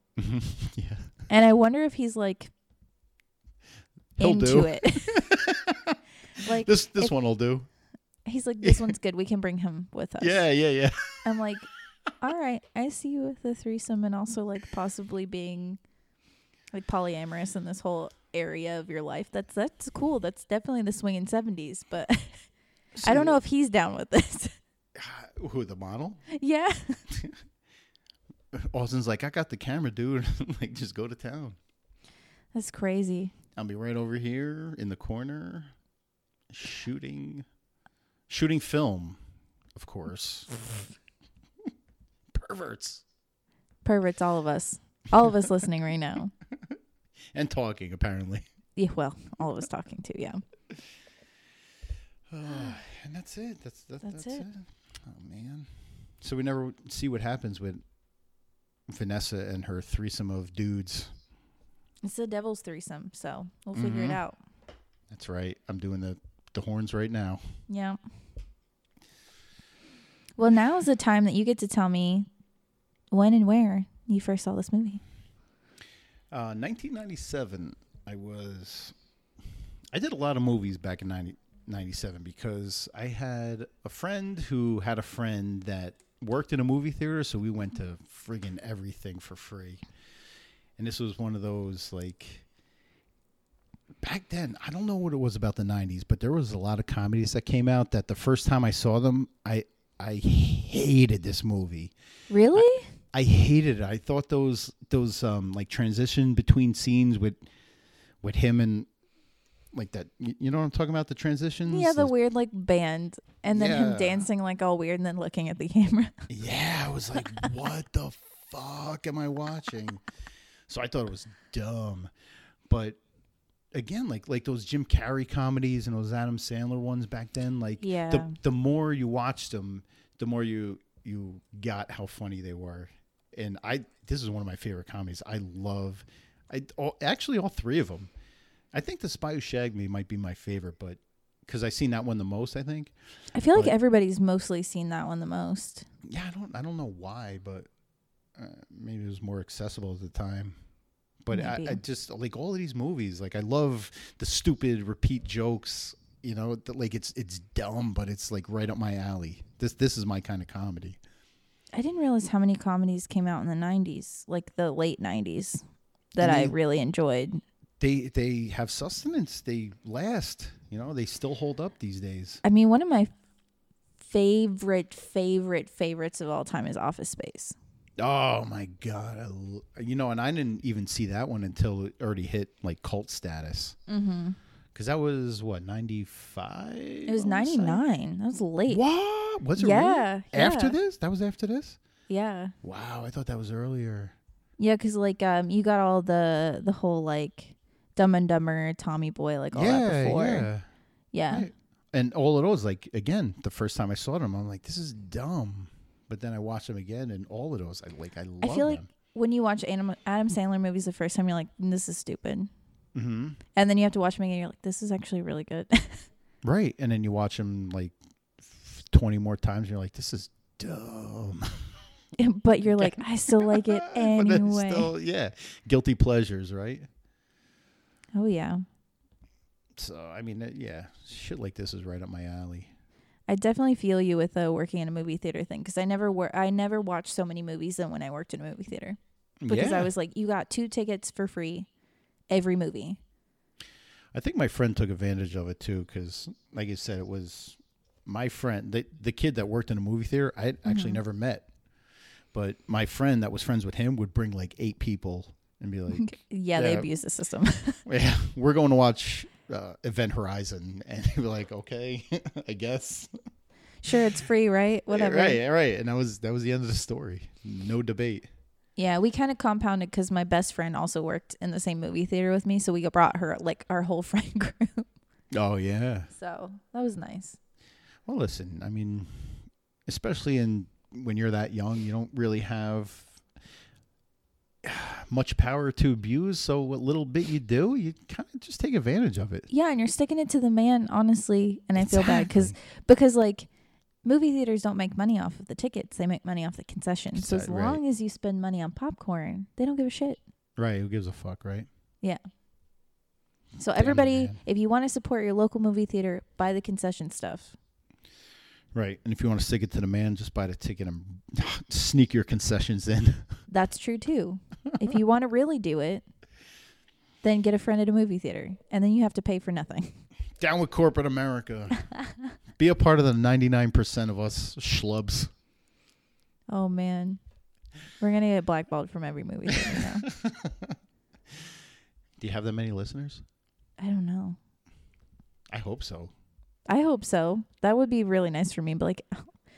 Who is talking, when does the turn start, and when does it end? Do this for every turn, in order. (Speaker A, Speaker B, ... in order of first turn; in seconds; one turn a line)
Speaker A: 0.2-1.1
Speaker B: 1.3-2.5
Speaker A: 4.2-6.0
Speaker B: 4.2-5.2
Speaker B: 6.4-7.1
Speaker A: 6.5-7.7
Speaker B: 8.3-10.4
Speaker A: 8.6-8.9
Speaker A: 10.2-11.2
Speaker B: 11.2-11.7
Speaker B: 12.2-15.8
Speaker B: 16.7-22.4
Speaker A: 22.9-23.4
Speaker B: 23.0-24.6
Speaker A: 24.9-26.2
Speaker B: 26.3-27.0
Speaker A: 27.1-27.4
Speaker A: 28.5-31.6
Speaker B: 32.5-33.3
Speaker A: 33.6-35.7
Speaker A: 36.5-37.5
Speaker A: 38.3-39.2
Speaker A: 39.8-40.8
Speaker A: 42.3-43.0
Speaker B: 43.8-46.3
Speaker A: 47.3-48.5
Speaker B: 48.8-50.4
Speaker A: 52.3-55.7
Speaker B: 54.0-54.5
Speaker A: 56.2-57.8
Speaker A: 58.9-61.1
Speaker B: 62.0-64.4
Speaker A: 63.7-64.2
Speaker A: 65.1-67.4
Speaker B: 67.7-68.0
Speaker B: 70.4-72.3
Speaker B: 73.1-75.0
Speaker A: 76.3-79.0
Speaker A: 79.9-89.8
Speaker A: 90.8-92.5
Speaker A: 94.0-101.9
Speaker B: 102.3-102.9
Speaker A: 102.5-107.4
Speaker A: 108.2-108.9
Speaker A: 109.7-112.1
Speaker B: 111.7-116.2
Speaker A: 113.5-114.3
Speaker A: 116.3-120.0
Speaker A: 120.7-122.1
Speaker A: 122.7-123.0
Speaker A: 123.7-138.1
Speaker B: 127.8-128.4
Speaker A: 138.7-142.9
Speaker B: 143.3-145.9
Speaker A: 146.0-147.7
Speaker A: 148.3-150.6
Speaker A: 151.2-161.0
Speaker B: 151.3-151.8
Speaker B: 161.8-165.6
Speaker B: 166.2-167.4
Speaker A: 166.2-166.6
Speaker A: 167.8-172.4
Speaker B: 172.4-173.1
Speaker B: 174.0-177.6
Speaker A: 178.0-183.8
Speaker B: 183.9-184.4
Speaker A: 184.8-187.8
Speaker B: 187.1-188.8
Speaker A: 188.7-191.8
Speaker B: 189.6-190.8
Speaker B: 192.1-192.5
Speaker A: 192.6-194.2
Speaker B: 194.6-200.5
Speaker A: 199.5-200.7
Speaker B: 201.1-201.5
Speaker A: 201.3-208.9
Speaker B: 208.4-212.5
Speaker A: 212.9-213.4
Speaker B: 213.6-216.1
Speaker A: 216.4-221.7
Speaker B: 222.2-224.9
Speaker A: 222.7-226.9
Speaker B: 228.2-228.7
Speaker A: 229.8-232.7
Speaker B: 233.3-241.7
Speaker A: 239.4-239.9
Speaker B: 242.3-243.0
Speaker A: 244.1-251.5
Speaker B: 250.7-251.0
Speaker A: 252.3-256.9
Speaker B: 255.9-257.8
Speaker A: 257.9-263.1
Speaker B: 263.8-265.4
Speaker A: 264.9-268.3
Speaker B: 268.8-274.9
Speaker A: 275.3-276.1
Speaker B: 276.1-277.4
Speaker A: 278.1-283.2
Speaker A: 284.6-289.5
Speaker B: 289.5-293.5
Speaker A: 291.8-292.6
Speaker B: 294.1-300.2
Speaker A: 297.1-297.8
Speaker A: 300.6-301.7
Speaker B: 303.6-307.6
Speaker A: 303.8-304.4
Speaker A: 308.7-313.3
Speaker B: 313.5-316.0
Speaker B: 317.2-320.0
Speaker A: 320.4-321.9
Speaker A: 322.6-325.3
Speaker B: 326.5-327.2
Speaker B: 328.0-330.1
Speaker A: 329.5-330.8
Speaker A: 332.2-333.2
Speaker B: 333.8-334.4
Speaker A: 335.5-336.1
Speaker B: 336.7-339.3